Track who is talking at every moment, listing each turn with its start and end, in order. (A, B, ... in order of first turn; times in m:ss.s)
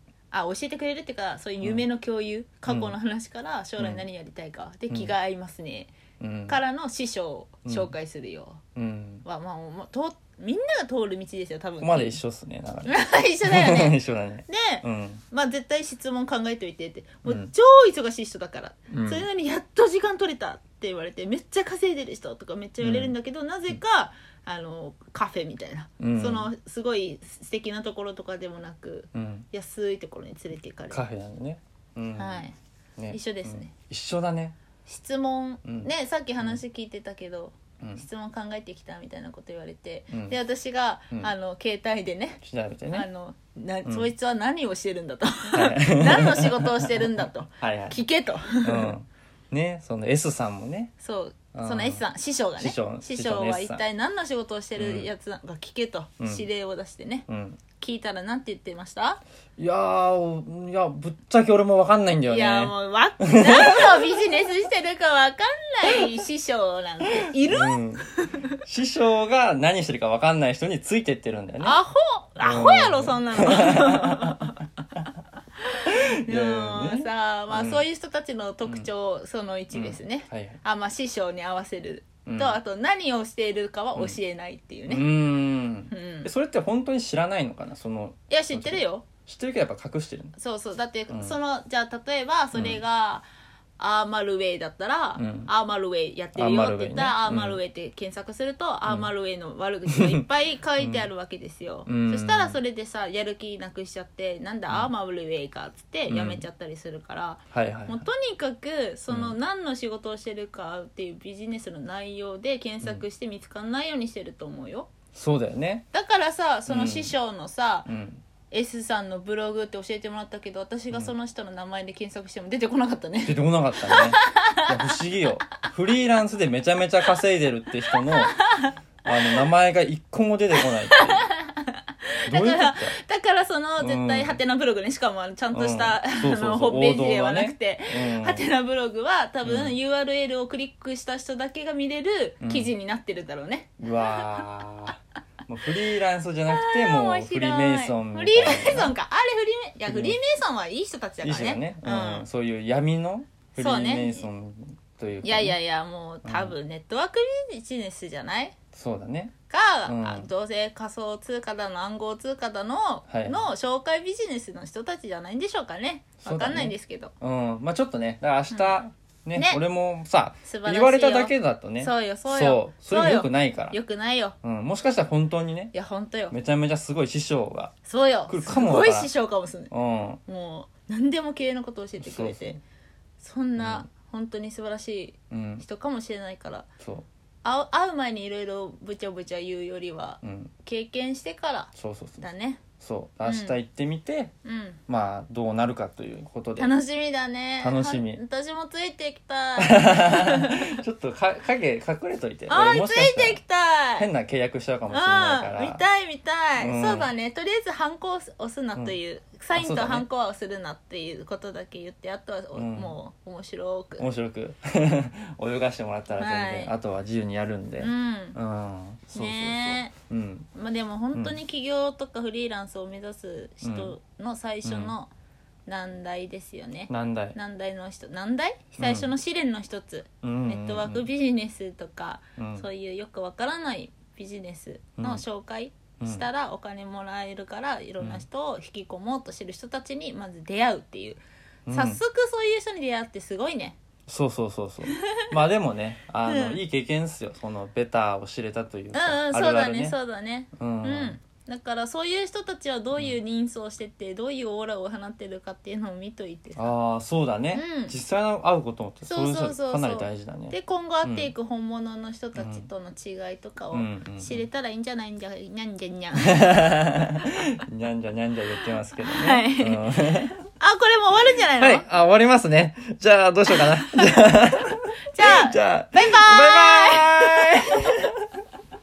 0:00.3-0:05.9 A
0:02.7-0:03.0 B
0:03.8-0:04.0 B
0:06.2-0:06.6 B
0:06.5-0:08.6 A
0:07.7-0:07.9 B
0:08.8-0:09.2 B
0:09.2-0:12.2 A
0:11.8-0:15.2 B
0:12.9-0:14.0 A
0:14.5-0:31.0 A
0:17.2-0:17.5 B
0:18.9-0:19.3 B
0:22.8-0:23.2 B
0:26.0-0:26.5 B
0:29.1-0:29.5 B
0:30.9-0:32.4 B
0:32.2-0:32.6 A
0:33.0-0:34.6 B
0:33.1-0:33.7 A
0:34.9-0:49.0 A
0:35.6-0:35.9 B
0:40.1-0:40.4 B
0:42.4-0:43.1 B
0:43.8-0:44.1 B
0:45.5-0:48.0 B
0:48.6-0:50.9 B
0:51.0-0:57.3 A
0:51.5-0:52.0 B
0:52.6-0:53.8 B
0:54.8-0:55.1 B
0:56.2-0:56.5 B
0:57.3-0:57.6 B
0:57.8-0:59.2 A
0:59.6-1:04.2 B
1:02.3-1:08.5 A
1:07.4-1:08.1 B
1:08.6-1:11.8 B
1:11.6-1:14.6 A
1:12.4-1:14.5 B
1:15.8-1:17.8 B
1:15.8-1:25.1 A
1:19.7-1:20.6 B
1:22.3-1:22.6 B
1:24.9-1:30.4 B
1:25.9-1:26.3 A
1:28.3-1:29.1 A
1:30.4-1:33.3 A
1:31.1-1:31.4 B
1:32.5-1:32.8 B
1:33.8-1:54.9 A
1:35.2-1:35.5 B
1:36.4-1:37.6 B
1:40.0-1:40.2 B
1:40.8-1:41.1 B
1:41.9-1:42.6 B
1:46.1-1:46.4 B
1:47.5-1:48.1 B
1:49.1-1:49.4 B
1:55.1-1:55.9 B
1:55.9-1:57.9 A
1:56.7-1:57.1 B
1:57.9-1:58.2 B
1:58.5-2:04.8 A
2:03.2-2:08.4 B
2:08.1-2:08.7 A
2:09.0-2:11.3 B
2:10.9-2:24.4 A
2:12.3-2:13.0 B
2:13.8-2:14.4 B
2:15.5-2:18.5 B
2:19.4-2:19.8 B
2:22.4-2:22.7 B
2:23.8-2:28.9 B
2:26.5-2:32.3 A
2:29.9-2:30.2 B
2:31.2-2:35.6 B
2:33.6-2:34.3 A
2:35.2-2:38.6 A
2:36.2-2:36.6 B
2:38.7-2:39.3 B
2:39.5-2:47.1 A
2:39.9-2:40.3 B
2:43.1-2:43.5 B
2:46.2-2:53.8 B
2:49.4-2:49.6 A
2:50.4-2:54.4 A
2:54.4-2:55.7 B
2:55.7-2:56.4 A
2:56.3-2:57.7 B
2:57.9-2:59.7 A
2:58.3-2:59.1 B
2:59.7-3:00.2 B
3:00.3-3:02.6 A
3:02.0-3:02.6 B
3:03.2-3:06.7 A
3:03.6-3:03.9 B
3:05.3-3:05.6 B
3:06.8-3:07.1 B
3:07.4-3:12.6 A
3:10.2-3:10.5 B
3:11.7-3:12.2 B
3:12.8-3:14.3 B
3:13.2-3:13.6 A
3:14.4-3:14.8 A
3:14.9-3:16.7 B
3:16.6-3:20.8 A
3:17.6-3:18.2 B
3:19.6-3:23.4 B
3:22.5-3:24.1 A
3:24.0-3:25.8 B
3:24.9-3:34.0 A
3:26.6-3:27.1 B
3:29.5-3:30.0 B
3:32.6-3:33.0 B
3:34.0-3:40.5 B
3:36.2-3:36.7 A
3:37.8-3:38.4 A
3:39.1-3:39.9 A
3:40.6-3:45.1 A
3:43.6-3:44.0 B
3:44.6-3:44.9 B
3:45.7-4:03.8 A
3:46.9-3:47.4 B
3:48.8-3:49.1 B
3:50.2-3:51.1 B
3:52.4-3:52.7 B
3:55.0-3:55.2 B
3:56.0-3:56.3 B
4:01.7-4:02.0 B
4:04.1-4:10.0 B
4:04.9-4:05.2 A
4:06.2-4:06.6 A
4:08.9-4:16.7 A
4:10.6-4:11.2 B
4:16.6-4:21.3 B
4:17.5-4:18.0 A
4:19.0-4:26.6 A
4:22.4-4:22.7 B
4:23.7-4:24.5 B
4:26.3-4:30.4 B
4:29.0-4:31.8 A
4:31.6-4:38.2 B
4:35.1-4:38.0 A